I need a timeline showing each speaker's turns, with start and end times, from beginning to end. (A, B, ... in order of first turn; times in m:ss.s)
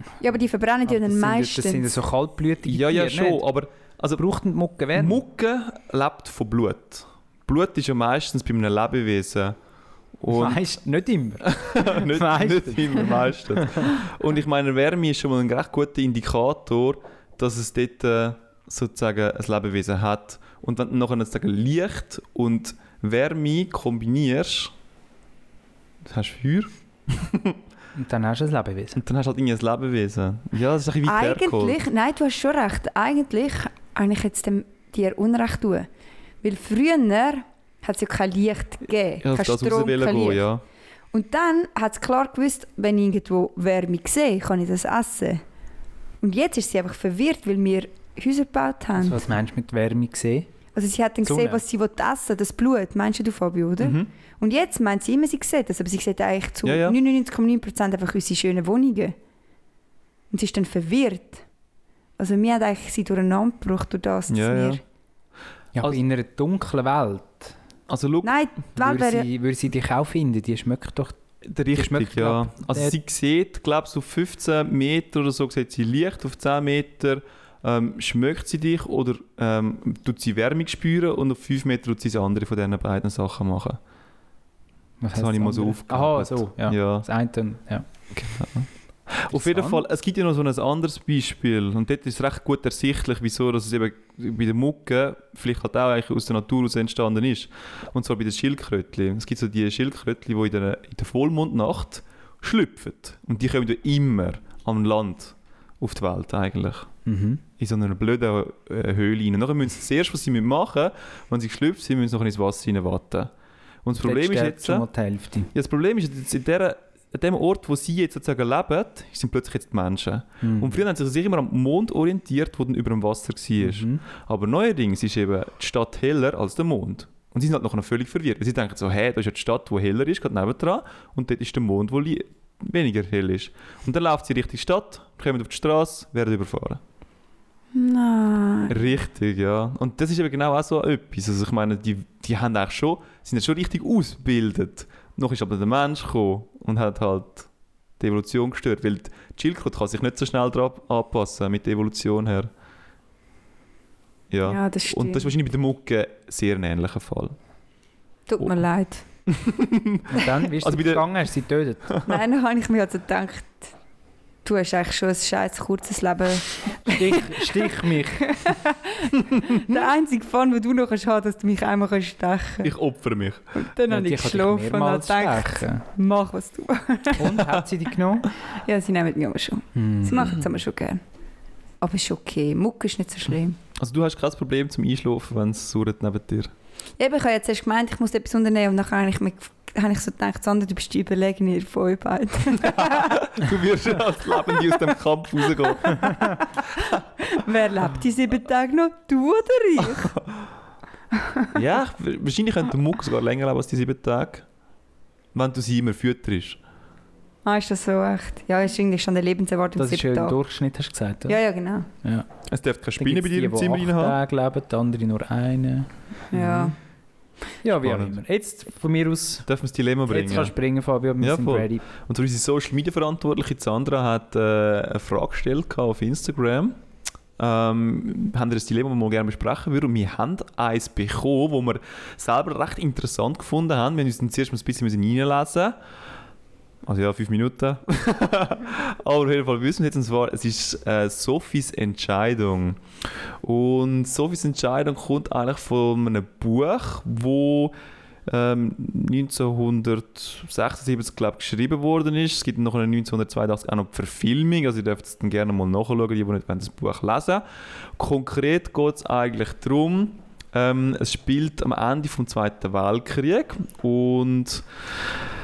0:00.2-0:02.0 A
0:00.9-0:03.5 B
0:02.7-0:04.2 C
0:04.2-0:05.2 B
0:05.0-0:09.6 C
0:10.2-0:10.6 C
0:10.3-0:14.0 B
0:11.4-0:24.7 C
0:26.0-0:27.6 C
0:27.9-0:29.0 B
0:29.0-0:31.8 C
0:31.0-0:35.9 A
0:36.4-0:40.4 A
0:39.2-0:40.6 C
0:41.1-0:45.4 A
0:46.2-0:49.2 A
0:49.0-0:50.5 B
0:50.8-0:59.2 A
0:51.2-0:51.6 B
0:53.8-0:54.1 C
0:56.6-0:57.0 C
1:00.3-1:01.4 A
1:02.2-1:04.8 A
1:04.3-1:04.8 C
1:05.8-1:07.6 B
1:07.9-1:08.3 C
1:08.2-1:09.3 A
1:08.8-1:11.2 B
1:11.4-1:23.8 C
1:11.7-1:13.0 B
1:25.0-1:27.9 B
1:25.2-1:27.1 C
1:28.1-1:46.9 C
1:29.3-1:29.8 B
1:47.0-1:47.4 B
1:47.6-1:53.3 C
1:53.8-1:54.9 C
1:54.0-1:55.5 B
1:55.5-2:16.8 C
2:00.4-2:00.8 B
2:03.6-2:04.0 B
2:17.7-2:18.8 A
2:18.7-2:27.5 C
2:28.0-2:32.5 C
2:34.3-2:37.4 C
2:34.4-2:35.3 A
2:38.3-2:39.1 A
2:39.3-2:41.1 C
2:40.1-2:41.9 B
2:41.9-2:42.2 C
2:42.0-2:43.7 A
2:44.4-2:52.7 A
2:46.9-2:48.4 B
2:52.6-2:53.4 C
2:53.5-2:57.4 A
2:53.9-2:55.8 B
2:57.1-2:58.3 B
2:58.6-3:01.0 A
2:59.8-3:00.4 B
3:01.8-3:03.6 A
3:03.8-3:06.5 C
3:07.0-3:13.3 A
3:12.7-3:16.4 C
3:15.8-3:20.2 A
3:21.2-3:21.5 A
3:21.5-3:24.5 C
3:25.4-3:26.6 C
3:27.4-3:30.4 A
3:29.8-3:31.4 B
3:31.3-3:31.9 A
3:32.5-3:34.2 C
3:33.0-3:36.8 B
3:36.3-3:36.7 A
3:37.6-3:39.5 B
3:37.8-3:38.2 C
3:39.5-3:40.6 C
3:40.1-3:41.8 B
3:41.2-3:46.8 C
3:47.4-3:55.8 C
3:56.8-4:02.8 C
4:03.4-4:07.8 C
4:08.3-4:17.4 C
4:18.0-4:25.2 C